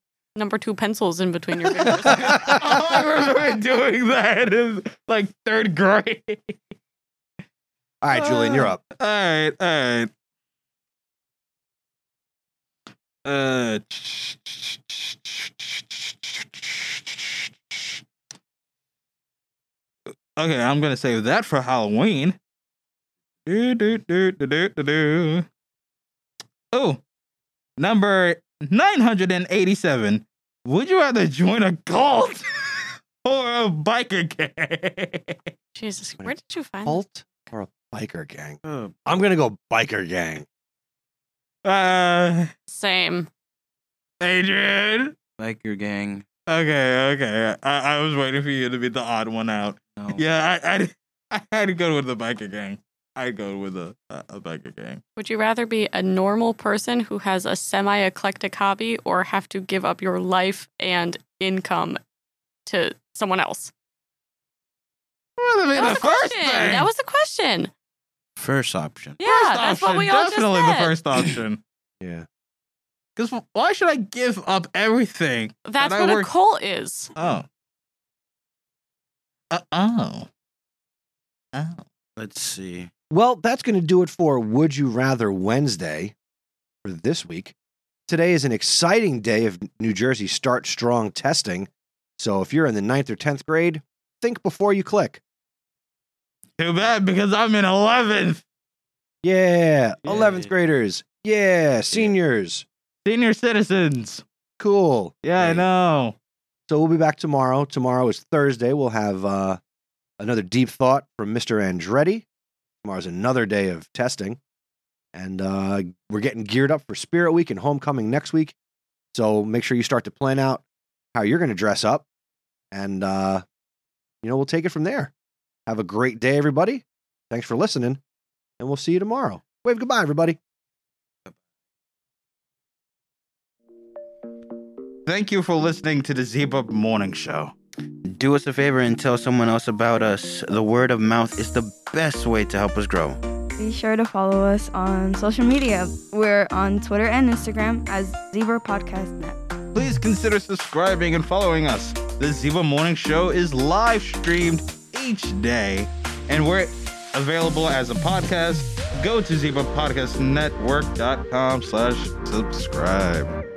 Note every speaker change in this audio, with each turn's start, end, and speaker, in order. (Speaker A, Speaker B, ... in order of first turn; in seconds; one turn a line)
Speaker A: 0.3-2.4
Speaker B: 1.9-6.6
Speaker C: 8.0-8.8
Speaker B: 8.1-10.1
Speaker B: 13.2-18.0
Speaker B: 20.4-22.4
Speaker B: 23.4-25.4
Speaker B: 26.7-27.0
Speaker B: 27.8-35.4
Speaker A: 35.7-37.0
Speaker C: 36.8-40.4
Speaker D: 38.6-38.9
Speaker B: 41.6-42.5
Speaker A: 42.7-43.3
Speaker B: 44.2-45.1
Speaker D: 45.4-46.2
Speaker B: 46.5-55.0
Speaker D: 50.0-50.2
Speaker A: 55.2-62.0
Speaker A: 62.6-63.7
Speaker B: 65.4-66.9
Speaker A: 65.7-67.7
Speaker D: 68.3-69.2
Speaker A: 69.2-70.9
Speaker B: 69.2-71.6
Speaker C: 72.0-72.2
Speaker B: 73.2-76.3
Speaker A: 75.6-77.1
Speaker B: 77.2-77.5
Speaker B: 79.5-80.3
Speaker B: 81.5-81.8
Speaker D: 82.2-82.9
Speaker C: 83.1-86.1
Speaker C: 86.8-87.5
Speaker C: 88.1-95.2
Speaker B: 96.6-98.4
Speaker C: 99.2-102.6
Speaker B: 100.0-100.5
Speaker B: 103.0-104.2
Speaker C: 104.6-105.7
Speaker B: 105.2-106.1
Speaker C: 106.7-109.6
Speaker C: 110.2-112.2
Speaker C: 112.8-114.4
Speaker C: 115.1-118.5
Speaker C: 119.1-120.6
Speaker C: 121.1-122.0
Speaker C: 122.7-123.4
Speaker C: 124.2-125.1
Speaker C: 125.7-128.0
Speaker C: 128.6-130.4
Speaker B: 135.1-137.5
Speaker D: 138.0-143.2
Speaker E: 143.6-149.4
Speaker B: 149.7-163.3